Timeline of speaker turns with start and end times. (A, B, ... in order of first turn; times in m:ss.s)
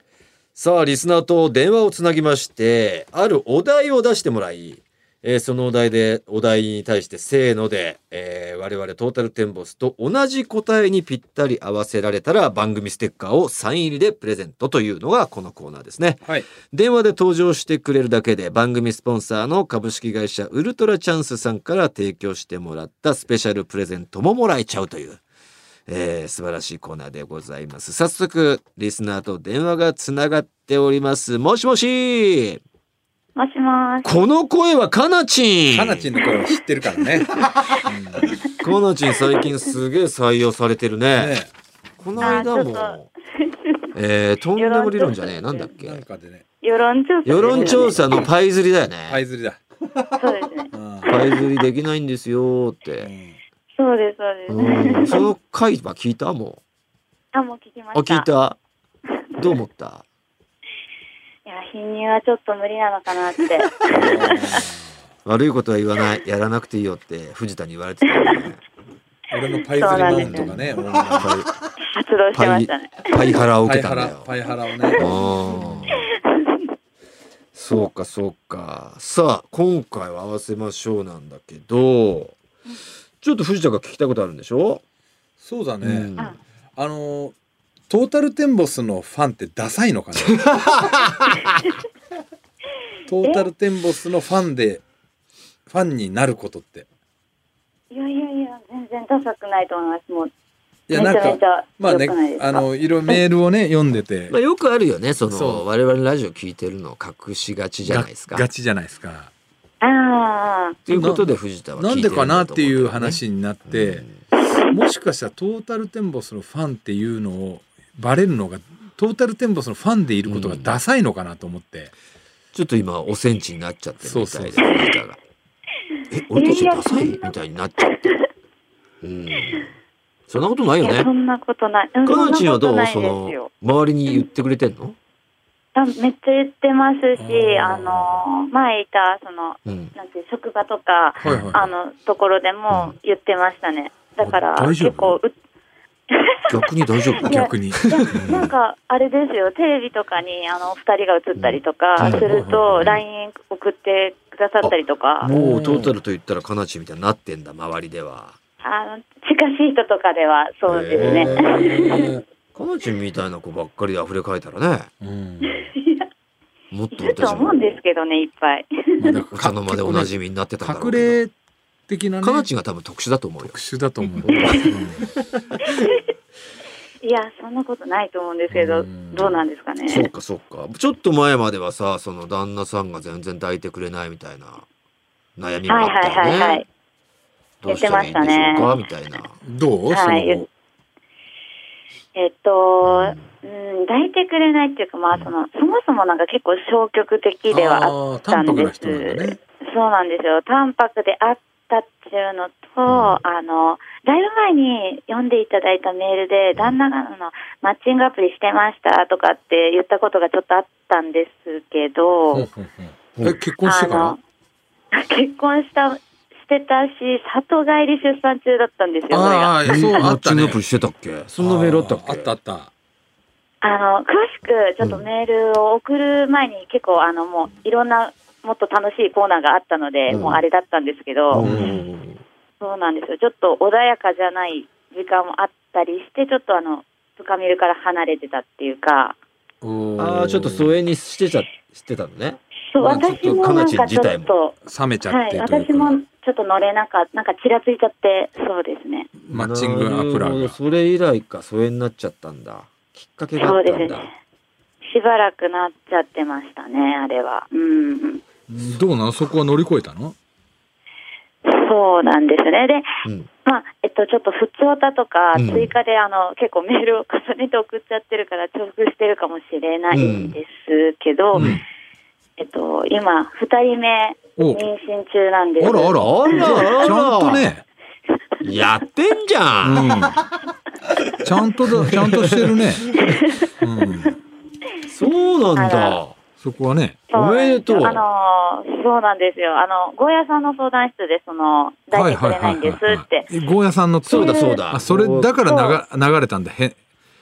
0:00.6-0:25.2 A
0:25.9-0:32.6 A
0:33.4-0:34.2 B
0:34.0-0:36.1 A
0:35.7-0:38.4 C
0:38.6-0:41.4 A
0:41.2-0:41.5 C
0:42.0-0:43.1 A
0:42.2-0:43.9 B
0:44.0-0:46.0 A
0:44.6-0:45.7 B
0:45.8-0:46.4 C
0:46.6-0:48.2 B
0:47.2-0:49.2 A
0:47.4-0:48.3 C
0:49.1-0:49.6 C
0:50.2-0:51.2 B
0:50.7-0:51.1 C
0:51.1-0:53.1 A
0:53.0-0:53.4 C
0:53.8-0:55.3 B
0:54.5-0:56.6 A
0:57.3-0:58.3 B
0:57.9-0:58.6 A
0:59.4-1:00.0 A
1:01.5-1:04.6 B
1:03.9-1:04.9 C
1:05.2-1:08.6 A
1:09.3-1:11.4 C
1:09.7-1:10.5 B
1:09.9-1:11.5 A
1:11.8-1:13.3 B
1:12.3-1:14.3 A
1:13.6-1:15.1 C
1:14.9-1:15.2 B
1:14.9-1:16.1 A
1:15.6-1:15.9 C
1:17.5-1:22.4 A
1:23.2-1:24.8 A
1:25.4-1:26.1 C
1:25.8-1:26.4 A
1:26.8-1:27.4 C
1:27.9-1:30.9 C
1:30.3-1:31.6 A
1:33.1-1:34.8 C
1:35.7-1:36.9 C
1:37.9-1:40.3 B
1:40.9-1:44.3 C
1:40.9-1:42.7 B
1:44.3-1:48.5 A
1:45.3-1:45.6 C
1:47.8-1:49.3 C
1:49.8-1:50.8 B
1:50.9-1:54.2 A
1:50.9-1:54.1 C
1:54.7-2:01.9 C
2:00.2-2:00.8 A
2:02.5-2:05.2 A
2:04.0-2:04.7 C
2:06.1-2:08.1 A
2:06.3-2:07.3 B
2:09.0-2:09.8 A
2:10.3-2:11.1 A
2:10.8-2:13.5 B
2:12.0-2:15.0 A
2:15.8-2:25.3 B
2:17.2-2:18.2 C
2:19.7-2:19.9 A
2:21.2-2:21.7 A
2:21.2-2:21.7 C
2:22.7-2:23.0 A
2:24.2-2:25.2 C
2:26.1-2:35.3 B
2:26.5-2:28.5 A
2:27.2-2:28.5 C
2:31.4-2:33.0 A
2:32.0-2:32.8 C
2:34.6-2:38.4 A
2:35.2-2:35.9 C
2:38.6-2:42.1 B
2:40.7-2:44.9 A
2:41.0-2:42.2 C
2:45.0-2:45.7 C
2:45.4-2:46.1 B
2:46.7-2:47.8 A
2:46.9-2:49.2 B
2:49.0-2:51.3 C
2:49.3-2:51.2 A
2:51.9-2:52.5 C
2:52.2-2:53.6 A
2:53.4-2:55.0 C
2:54.2-2:54.8 A
2:54.4-2:54.8 B
2:57.0-3:00.1 B
2:58.5-2:59.4 C
2:59.9-3:04.7 A
3:05.4-3:06.6 A
3:05.7-3:06.6 B
3:07.6-3:09.4 A
3:07.6-3:08.7 B
3:09.4-3:10.5 C
3:09.9-3:10.4 B
3:12.2-3:32.5 B
3:12.8-3:13.3 A
3:17.5-3:19.4 C
3:22.9-3:23.2 A
3:32.3-3:34.2 C
3:33.6-3:34.2 B
3:34.9-3:39.6 B
3:39.1-3:40.6 C
3:39.7-3:42.3 A
3:41.4-3:42.7 C
3:43.6-3:51.4 B
3:50.1-3:50.4 A
3:51.3-3:52.2 A
3:51.4-3:51.8 C
3:52.6-3:59.2 B
3:59.6-4:00.8 C
4:00.0-4:04.3 A
4:02.7-4:09.1 B
4:04.6-4:06.0 C
4:09.2-4:10.6 C
4:09.3-4:14.1 A
4:13.4-4:14.1 B
4:14.8-4:18.2 B
4:18.5-4:20.2 C
4:21.4-4:31.5 B
4:25.4-4:25.7 A
4:29.9-4:30.4 A
4:31.4-4:31.6 A
4:31.4-4:31.6 C
4:32.4-4:36.5 B
4:34.4-4:34.6 C
4:35.6-4:37.6 C
4:36.0-4:37.5 A
4:38.4-4:40.0 A
4:39.6-4:40.2 C
4:41.2-4:42.9 C
4:41.7-4:43.2 A
4:43.2-4:43.5 B
4:43.6-4:44.2 C
4:44.8-4:46.2 A
4:45.6-4:46.0 B
4:46.4-4:47.0 C
4:47.1-4:53.3 B
4:47.1-4:48.0 A
4:51.9-4:56.8 C
4:54.1-4:55.4 A
4:54.1-4:54.6 B
4:55.4-4:55.8 B